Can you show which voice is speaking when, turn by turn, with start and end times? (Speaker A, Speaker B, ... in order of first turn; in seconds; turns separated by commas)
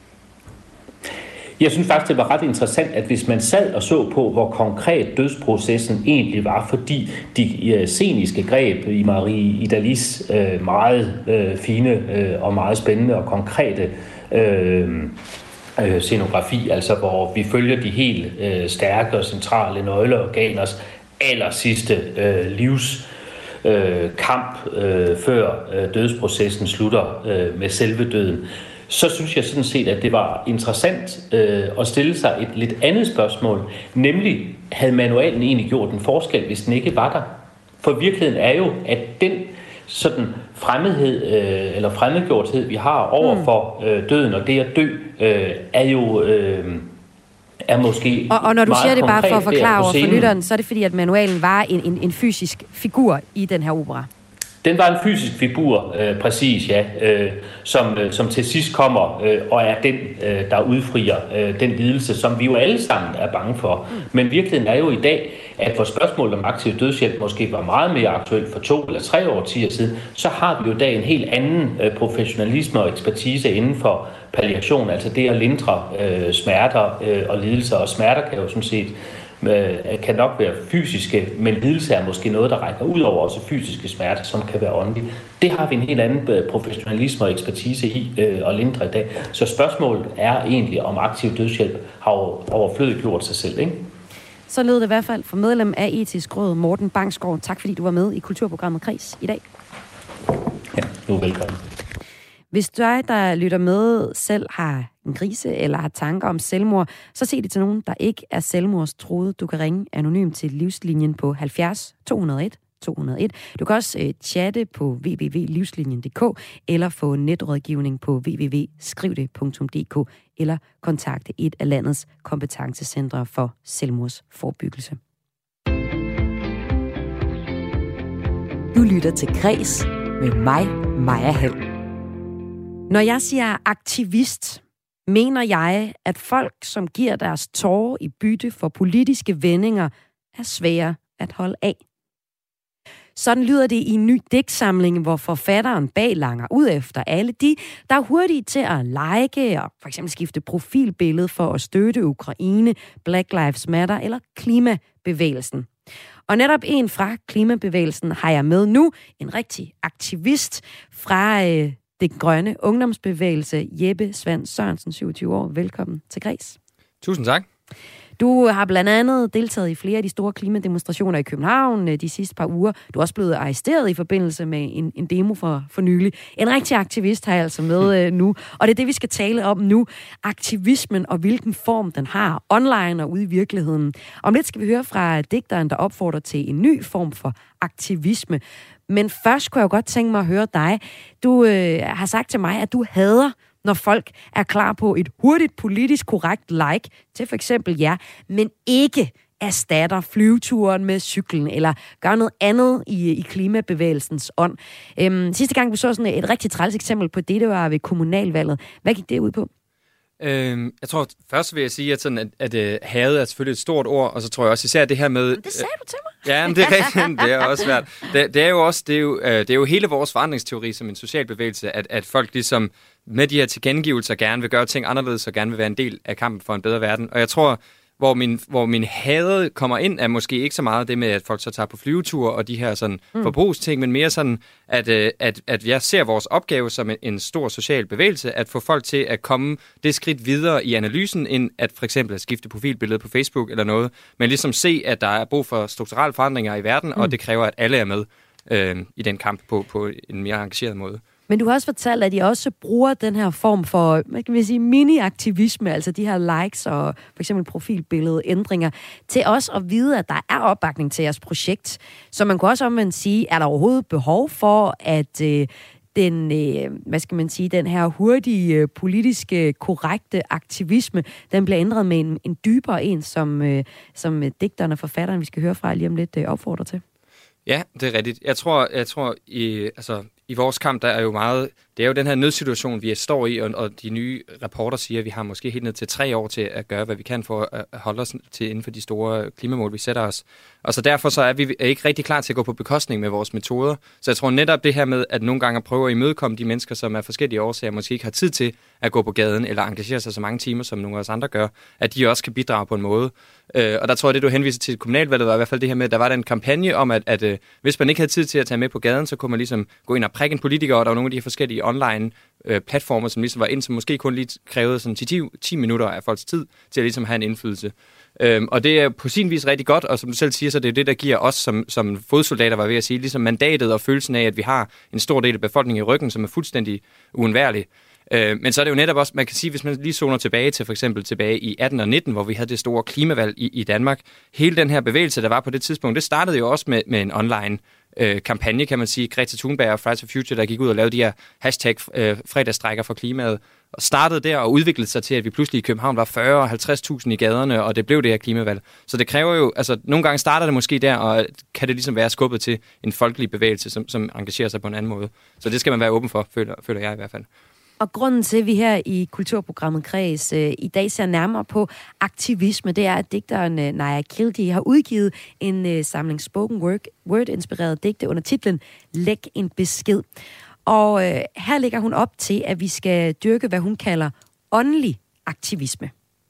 Speaker A: 1.6-15.2, Speaker A: 15.8-23.1, Speaker A: 23.6-46.9, Speaker B: 43.2-43.5, Speaker A: 47.7-50.3, Speaker B: 48.3-54.1, Speaker A: 54.6-93.9, Speaker B: 94.5-99.4, Speaker A: 100.7-101.6, Speaker B: 102.5-125.0, Speaker B: 128.7-131.6, Speaker B: 132.9-141.8, Speaker B: 143.2-155.7, Speaker B: 156.3-166.6, Speaker C: 167.0-167.5, Speaker B: 168.2-209.5, Speaker C: 210.2-215.7, Speaker B: 215.4-217.1, Speaker C: 216.2-251.0, Speaker B: 251.3-276.8, Speaker C: 277.5-357.3, Speaker B: 357.8-370.1, Speaker B: 370.7-375.9